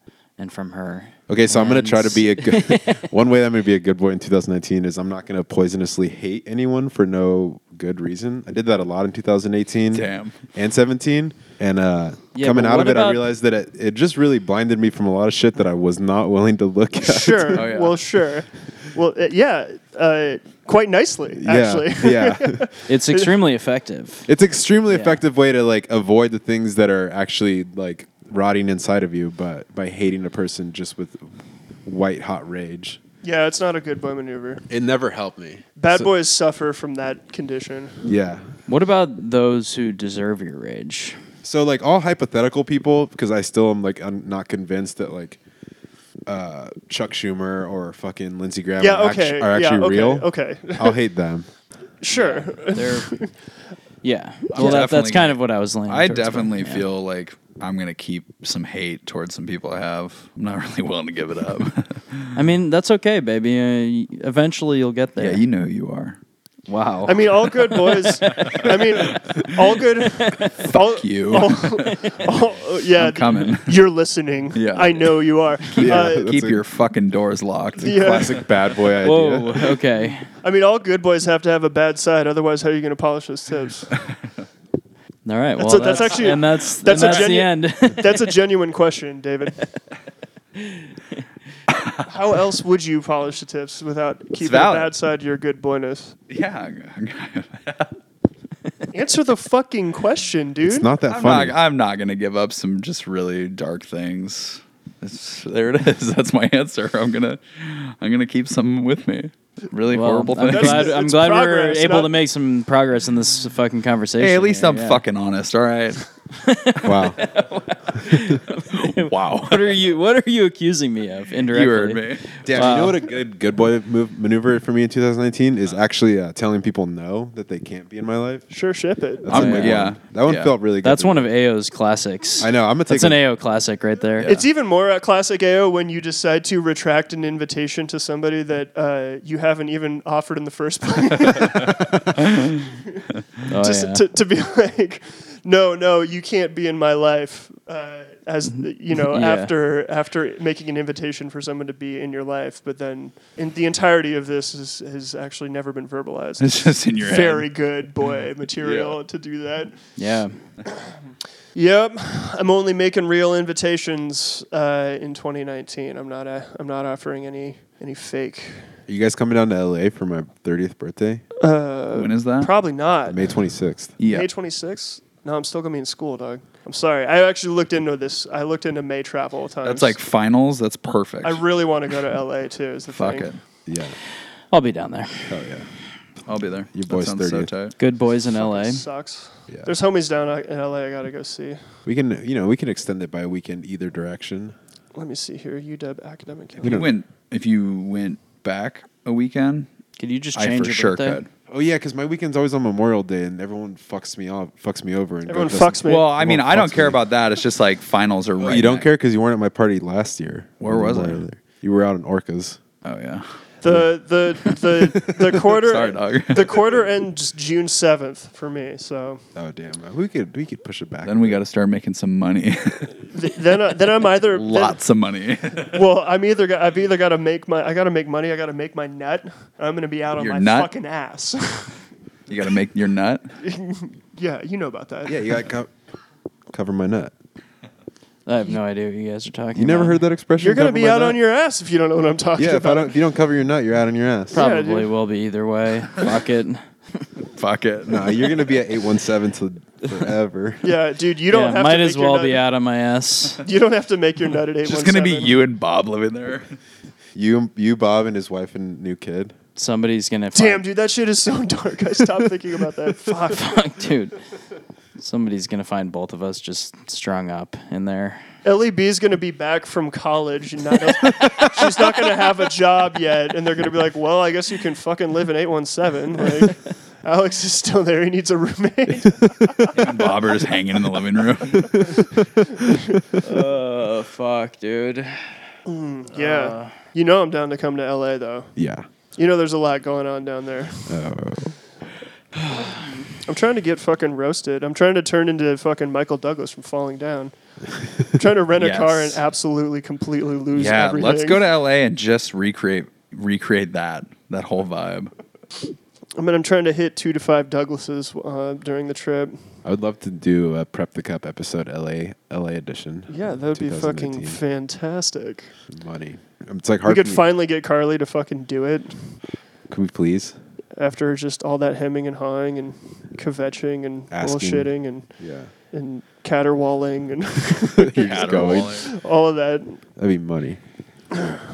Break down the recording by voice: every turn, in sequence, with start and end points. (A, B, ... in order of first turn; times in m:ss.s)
0:00.4-0:03.1 A
0:01.3-0:17.7 B
0:09.9-0:10.3 C
0:12.3-0:13.3 A
0:17.0-0:23.3 D
0:17.5-0:18.0 C
0:21.3-0:22.7 B
0:22.9-0:24.3 A
0:24.3-0:31.3 B
0:24.9-0:25.2 A
0:31.8-0:33.0 B
0:33.2-0:34.6 D
0:34.7-0:36.1 B
0:35.8-0:38.1 D
0:38.0-0:38.5 B
0:38.7-0:41.2 A
0:41.4-0:45.4 B
0:46.3-0:51.5 B
0:48.8-0:51.0 D
0:52.0-0:53.3 D
0:52.1-0:53.2 A
0:54.0-0:56.9 A
0:54.5-1:02.3 C
1:02.3-1:05.4 A
1:05.2-1:06.2 C
1:06.7-1:07.9 A
1:07.0-1:16.2 D
1:08.4-1:09.4 C
1:10.6-1:12.3 C
1:12.9-1:13.8 C
1:14.5-1:18.5 C
1:15.8-1:16.6 B
1:17.8-1:19.6 B
1:17.8-1:18.4 D
1:19.0-1:20.3 A
1:20.4-1:24.0 D
1:25.2-1:28.3 A
1:25.6-1:29.7 D
1:26.9-1:27.3 C
1:30.6-1:31.2 A
1:31.7-1:32.0 C
1:32.0-1:36.2 D
1:34.4-1:34.9 C
1:36.3-1:38.0 C
1:38.9-1:40.9 D
1:40.6-1:41.6 B
1:41.1-1:50.9 C
1:49.9-1:55.0 A
1:50.4-1:52.1 D
1:54.2-1:56.0 C
1:56.3-2:03.0 A
1:56.8-1:57.2 B
1:58.7-1:59.7 C
2:01.5-2:02.8 C
2:02.4-2:08.5 B
2:08.5-2:09.3 D
2:09.2-2:11.3 B
2:09.3-2:10.0 C
2:09.3-2:14.3 A
2:12.4-2:13.2 B
2:14.2-2:22.5 D
2:23.5-2:24.0 A
2:23.5-2:40.0 D
2:28.5-2:29.5 A
2:36.4-2:37.5 C
2:38.6-2:39.0 C
2:40.0-2:40.4 A
2:41.5-2:48.7 D
2:48.9-2:51.2 B
2:51.4-2:53.4 D
2:51.9-2:52.5 C
2:53.0-2:54.0 B
2:54.0-2:54.3 C
2:54.0-3:00.0 D
2:59.6-3:01.4 C
3:01.2-3:03.4 D
3:02.9-3:03.4 C
3:03.6-3:04.0 B
3:04.5-3:05.4 A
3:05.3-3:05.7 B
3:06.3-3:07.8 C
3:06.7-3:07.5 B
3:07.8-3:08.8 A
3:08.3-3:11.8 D
3:11.8-3:14.5 B
3:14.9-3:16.8 D
3:16.6-3:16.9 B
3:16.6-3:19.7 C
3:20.0-3:21.2 A
3:20.3-3:21.3 C
3:21.5-3:27.0 B
3:25.3-3:26.1 D
3:25.8-3:28.9 C
3:28.4-3:32.6 B
3:30.6-3:31.3 C
3:32.8-3:33.3 C
3:33.6-3:39.2 D
3:34.5-3:36.6 C
3:39.3-3:41.4 B
3:41.0-3:42.9 C
3:43.1-3:44.8 D
3:44.3-3:45.8 C
3:45.6-3:51.8 D
3:50.2-3:50.7 C
3:52.3-3:53.2 C
3:53.4-3:55.2 D
3:55.0-3:55.7 B
3:56.5-3:57.1 B
3:58.2-4:00.0 A
3:59.5-4:01.2 B
4:00.4-4:02.9 D
4:02.4-4:04.4 B
4:04.3-4:04.9 D
4:04.3-4:07.1 A
4:07.3-4:08.4 C
4:07.9-4:10.7 B
4:10.6-4:12.4 D
4:11.3-4:13.4 A
4:13.4-4:15.4 D
4:14.6-4:16.6 C
4:17.1-4:19.4 B
4:19.6-4:20.6 A
4:20.3-4:23.7 D
4:23.2-4:24.2 A
4:25.0-4:28.2 A
4:28.4-4:40.1 D
4:39.7-4:42.0 C
4:41.6-4:41.9 D
4:42.6-4:43.0 D
4:43.2-4:45.4 A
4:45.7-4:48.5 D
4:46.1-4:46.8 A
4:48.6-4:48.8 B
4:49.1-4:51.1 D
4:50.8-4:51.6 B
4:52.4-4:52.7 A
4:52.5-4:57.3 D
4:58.0-5:01.4 D
4:58.6-4:59.2 C
5:00.5-5:05.1 C
5:06.2-5:09.6 D
5:09.6-5:14.4 B
5:13.1-5:15.5 D
5:15.7-5:17.2 B
5:16.8-5:19.2 D
5:19.7-5:20.3 B
5:20.8-5:29.8 D
5:24.1-5:25.5 B
5:27.8-5:28.8 B
5:28.0-5:28.9 C
5:30.0-5:30.6 B